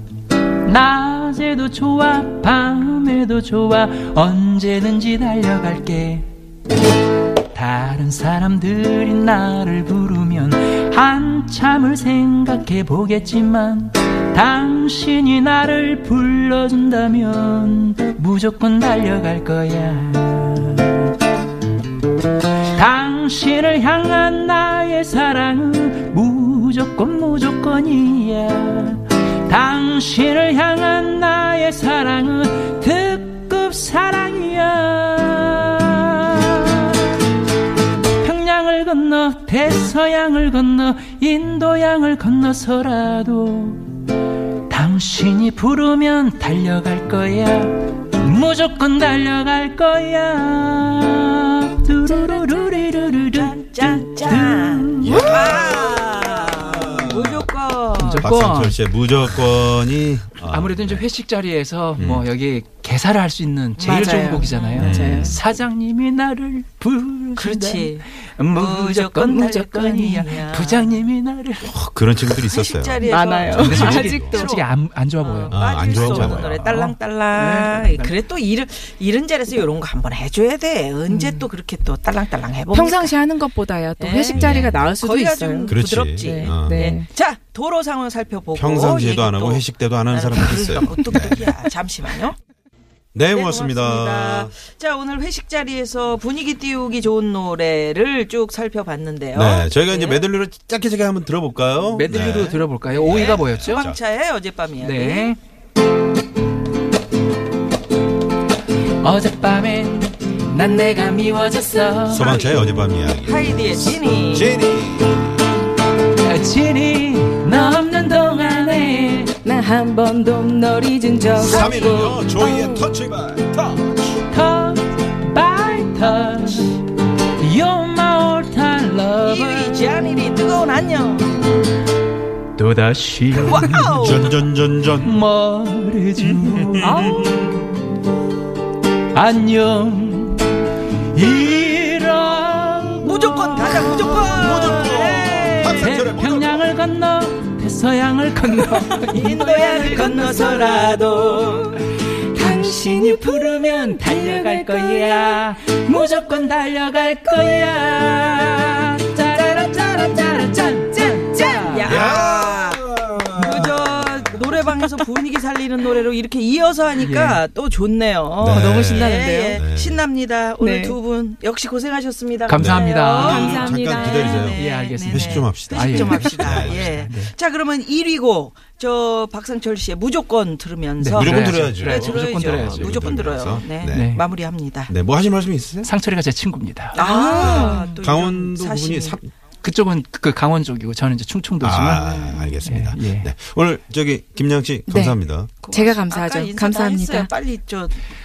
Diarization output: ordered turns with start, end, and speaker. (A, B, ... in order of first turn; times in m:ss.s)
0:00.6-0:06.3 A
0:07.5-0:21.1 A
0:22.7-0:37.0 A
0:38.2-0:43.9 A
0:44.7-0:55.6 A
0:52.0-0:58.3 B
0:55.0-0:57.5 C
0:58.0-0:58.8 A
0:58.2-1:01.0 C
1:00.5-1:11.7 A
1:02.0-1:02.3 C
1:03.8-1:04.9 B
1:03.8-1:05.4 D
1:04.8-1:05.4 C
1:07.4-1:11.0 B
1:11.7-1:14.5 C
1:12.4-1:23.2 B
1:13.0-1:14.4 D
1:13.6-1:18.1 A
1:15.5-1:16.7 C
1:21.1-1:21.5 D
1:22.7-1:27.1 D
1:24.0-1:32.4 B
1:24.3-1:24.9 C
1:25.6-1:26.8 C
1:28.5-1:31.5 C
1:33.1-1:34.5 C
1:33.3-1:40.2 B
1:39.3-1:44.0 C
1:41.9-1:43.9 A
1:42.9-1:45.3 B
1:44.8-1:45.4 A
1:49.0-1:52.3 A
1:52.1-1:55.4 C
1:52.1-1:52.7 B
1:53.2-1:54.5 B
1:56.2-1:59.3 A
1:58.2-1:58.9 B
1:59.4-2:02.9 D
2:01.3-2:02.2 B
2:01.4-2:04.1 C
2:04.3-2:09.9 A
2:09.2-2:11.5 B
2:12.5-2:14.3 A
2:13.3-2:14.3 B
2:14.0-2:15.2 C
2:15.0-2:17.8 A
2:16.2-2:17.3 C
2:19.1-2:23.9 A
2:23.0-2:26.0 B
2:23.7-2:26.7 C
2:25.7-2:31.0 A
2:29.1-2:31.8 B
2:29.7-2:30.4 D
2:31.9-2:41.9 A
2:32.4-2:35.4 D
2:41.6-2:42.8 B
2:41.8-2:44.7 C
2:43.3-3:04.9 B
2:47.0-2:47.4 A
2:48.4-2:50.0 C
2:48.5-2:49.6 D
2:50.6-2:51.0 D
2:52.5-2:53.6 A
2:52.6-2:57.0 C
2:53.1-2:54.6 D
2:54.6-2:57.3 A
3:01.0-3:03.1 A
3:01.1-3:04.2 C
3:03.9-3:04.2 A
3:04.9-3:05.9 C
3:05.8-3:07.0 A
3:06.9-3:09.2 B
3:06.9-3:08.0 D
3:07.4-3:09.3 C
3:09.6-3:13.3 A
3:11.6-3:15.5 C
3:12.0-3:12.5 B
3:14.9-3:17.3 D
3:15.6-3:17.9 B